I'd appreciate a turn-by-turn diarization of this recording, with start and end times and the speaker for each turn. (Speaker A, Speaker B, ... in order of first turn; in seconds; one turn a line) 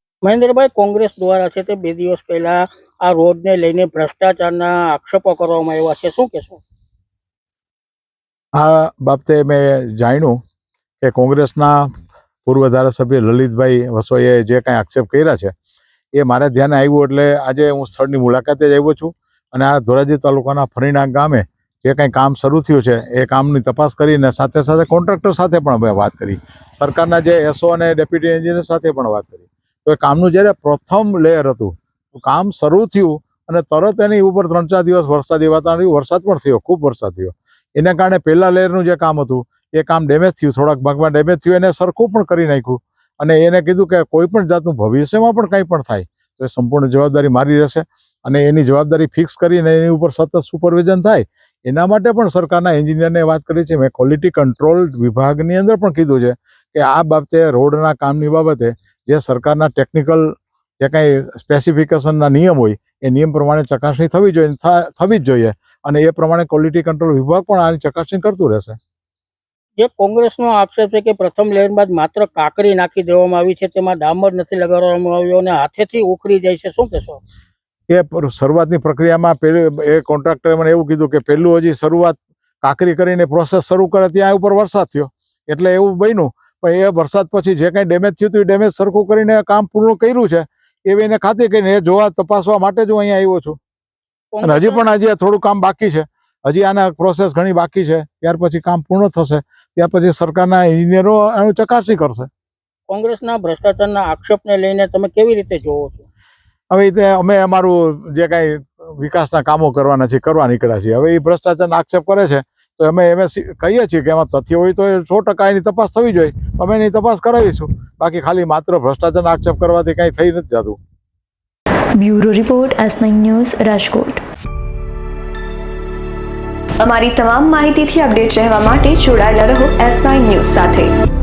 Speaker A: 0.2-6.6
Speaker B: 8.6-10.4
Speaker B: 11.0-11.9
Speaker B: 12.4-15.5
Speaker B: 16.1-68.8
Speaker A: 69.8-77.2
Speaker B: 77.9-93.6
Speaker A: 94.3-94.8
Speaker B: 94.4-102.3
Speaker A: 102.9-106.0
Speaker B: 106.7-120.8
Speaker C: 122.0-124.2
Speaker D: 126.8-130.9